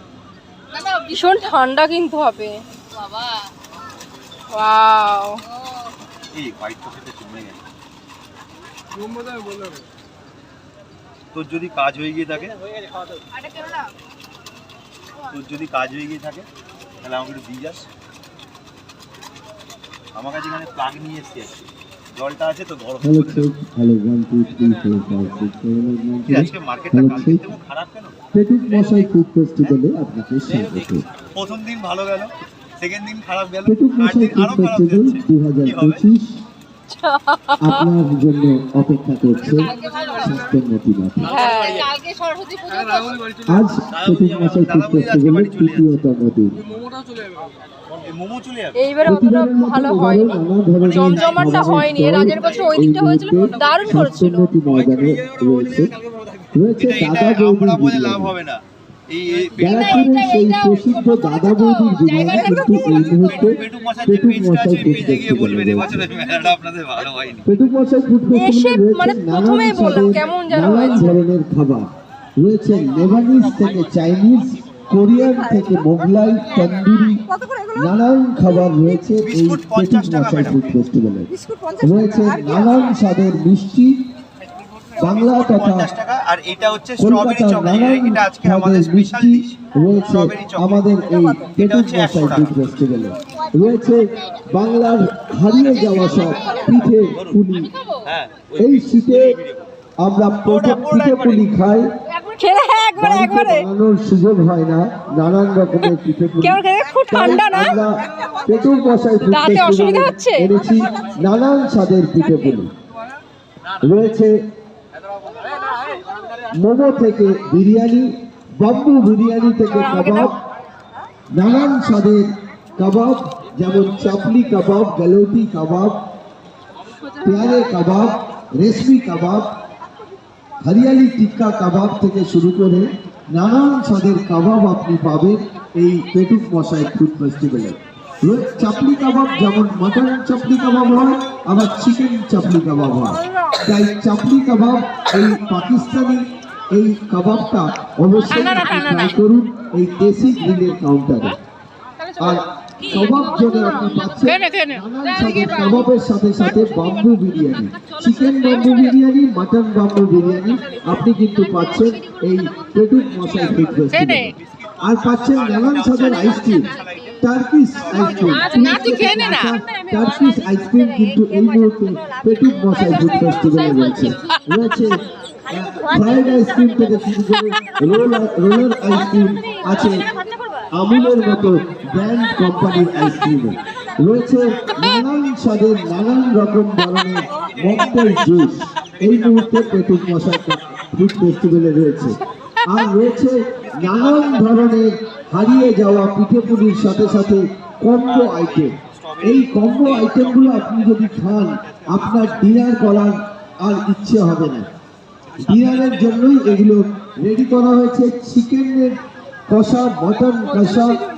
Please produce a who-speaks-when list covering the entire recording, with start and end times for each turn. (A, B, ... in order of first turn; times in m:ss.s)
0:00.7-0:01.5 A
0:01.1-0:02.6 B
0:02.8-0:03.5 A
0:04.5-0:05.4 B
0:05.5-0:05.9 A
0:06.3-0:07.6 C
0:11.3-0:12.6 C
0:15.3-0:16.4 C
0:17.0-0:17.9 C
0:20.1-0:23.5 C
0:23.0-0:27.5 D
0:26.3-0:28.1 C
0:28.3-0:31.0 D
0:30.5-0:36.0 C
0:33.6-0:36.4 D
0:37.0-0:37.9 B
0:37.6-0:41.3 D
0:39.4-0:40.4 A
0:41.2-0:41.9 C
0:41.2-0:41.7 B
0:41.4-0:43.3 A
0:43.4-0:46.6 D
0:43.9-0:46.0 C
0:47.9-0:48.8 C
0:48.8-0:54.5 B
0:49.0-0:55.9 D
0:50.8-0:52.8 C
0:54.7-1:00.1 C
0:56.5-0:58.3 D
0:59.6-1:06.1 D
0:59.7-1:00.6 A
1:00.1-1:00.8 B
1:01.5-1:02.8 A
1:01.8-1:03.1 B
1:02.9-1:07.4 C
1:07.4-1:24.0 D
1:08.3-1:11.2 B
1:19.2-1:20.8 C
1:25.0-1:25.9 D
1:25.0-1:30.8 C
1:27.0-1:37.7 D
1:31.5-1:32.6 C
1:35.7-1:36.7 A
1:36.9-1:37.4 C
1:37.6-1:38.1 A
1:38.0-1:39.6 C
1:38.6-1:39.4 D
1:40.0-1:41.9 D
1:40.4-1:41.4 C
1:42.4-1:43.7 B
1:43.0-1:52.7 D
1:46.4-1:47.8 B
1:49.2-1:50.5 B
1:53.8-1:54.3 D
1:56.5-2:00.3 D
1:59.8-2:00.3 B
2:01.3-2:06.0 D
2:07.2-2:09.6 D
2:10.6-2:31.4 D
2:28.4-2:28.9 A
2:28.6-2:29.1 B
2:32.1-2:35.9 A
2:32.2-3:00.1 D
2:33.0-2:34.0 B
2:37.8-2:39.0 A
2:41.4-2:41.9 A
2:43.2-2:43.6 C
2:43.9-2:44.3 A
2:44.1-2:48.7 C
2:46.0-2:47.0 A
2:48.0-2:49.6 A
2:48.5-2:49.3 B
2:53.3-2:54.3 A
3:00.7-3:24.7 D
3:07.6-3:08.4 C
3:08.9-3:10.2 C
3:13.7-3:14.7 C
3:18.1-3:22.7 C
3:25.3-3:26.6 C
3:25.4-3:28.9 D
3:29.5-3:31.0 D